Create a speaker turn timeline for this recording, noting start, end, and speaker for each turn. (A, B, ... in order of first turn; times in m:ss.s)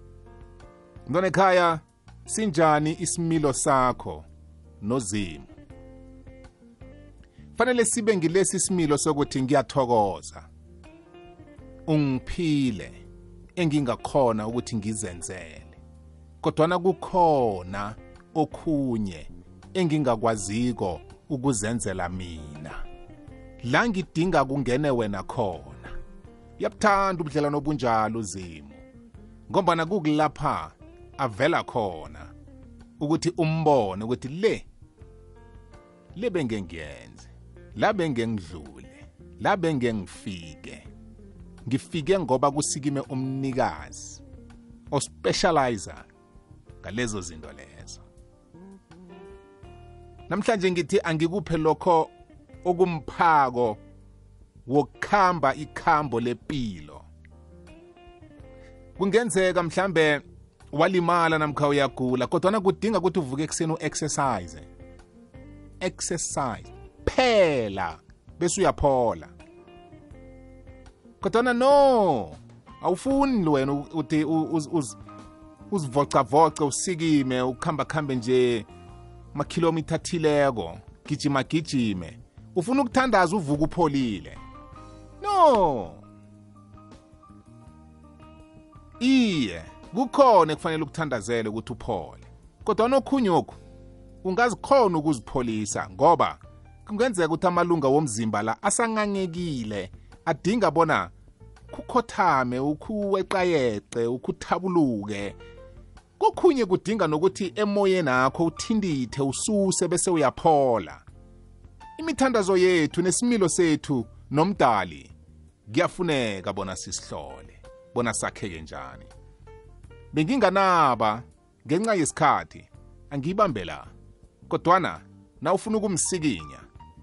0:01.1-0:04.2 A
0:04.8-0:05.5 A
0:07.6-0:10.5 A
0:11.9-0:13.0 A
0:13.6-0:15.8 A
0:16.4-0:22.8 A
0:23.6-0:25.9 A
0:26.6-0:28.8 A
0:29.5-0:32.3 A
0:33.0-0:34.7 A
0:36.1-0:40.8 A
0:41.6-0:44.2 A
0:44.9-0:46.0 A
0:46.8-0:48.0 A
0:50.3-0:52.1 A
0:52.6-0:53.8 A
0:54.6-0:57.0 A
0:59.0-1:04.7 A
1:05.8-1:09.3 A
1:11.2-1:15.0 A
1:15.7-1:18.7 A
1:19.3-1:24.4 A
1:25.2-1:26.0 A
1:29.0-1:33.6 A
1:34.2-1:41.1 A
1:41.7-1:45.4 A
1:46.2-1:51.0 A
1:52.0-1:55.1 A
1:55.7-1:59.1 A
2:00.1-2:03.9 A
2:04.5-2:06.7 A